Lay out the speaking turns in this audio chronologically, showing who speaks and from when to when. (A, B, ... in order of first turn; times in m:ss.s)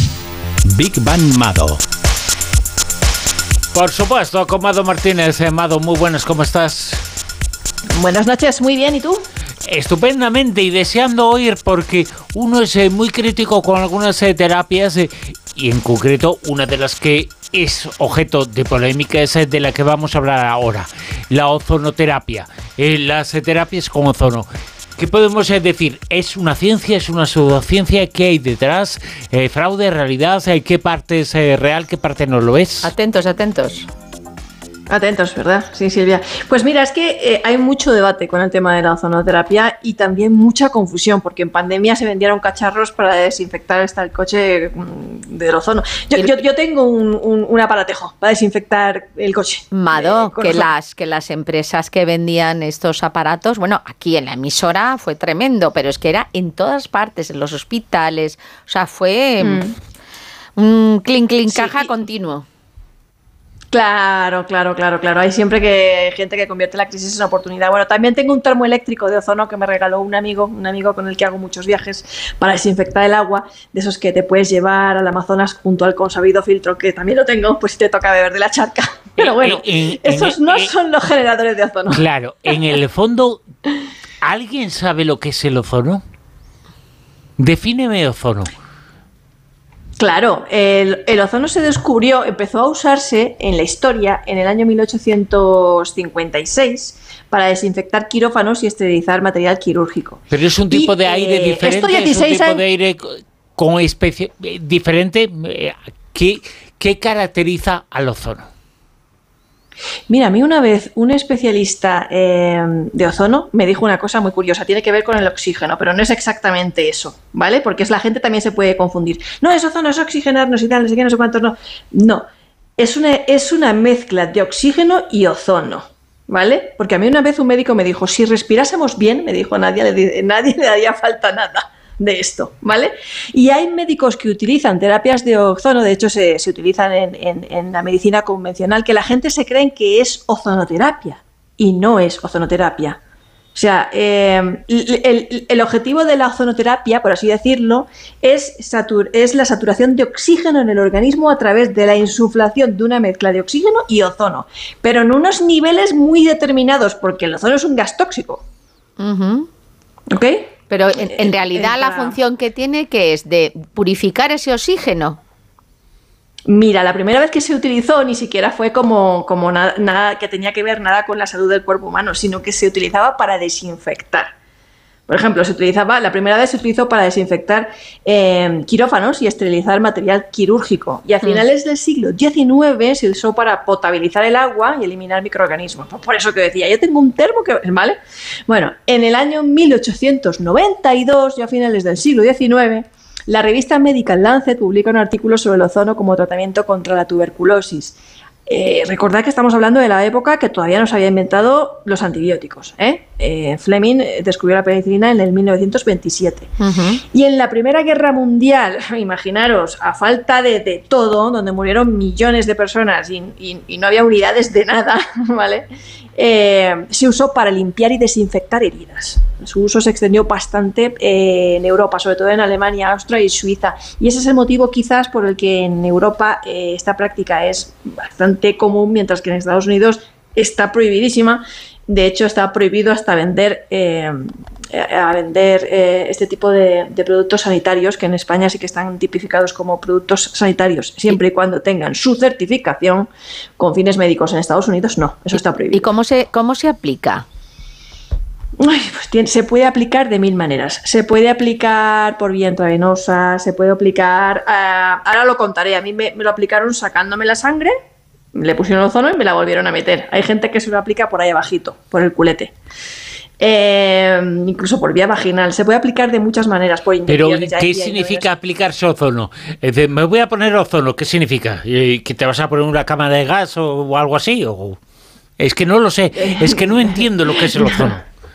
0:00.7-0:01.8 A
0:03.7-0:07.0 A
0:07.9-0:09.2 B
0:09.6-0:32.9 A
0:32.8-0:33.9 C
0:34.9-0:50.7 B
0:49.7-0:59.6 C
0:59.4-0:59.7 B
1:00.6-1:02.4 C
1:01.5-1:02.0 B
1:03.7-1:22.0 B
1:19.2-1:20.7 A
1:21.9-1:23.4 A
1:24.2-1:26.0 A
1:27.4-1:28.5 A
1:30.0-1:42.6 B
1:40.3-1:48.4 A
1:50.1-2:02.2 B
2:02.8-2:23.0 B
2:23.5-2:38.4 B
2:39.0-2:39.5 C
2:40.1-2:42.2 B
2:40.7-2:45.2 C
2:46.5-2:54.3 B
2:55.1-3:26.5 B
3:26.6-3:27.0 C
3:27.1-4:05.9 B
4:05.3-4:07.2 C
4:08.6-4:17.7 B
4:18.3-4:22.5 B
4:23.4-4:28.3 B
4:27.1-4:34.8 A
4:35.4-4:38.0 A
4:36.1-4:37.9 B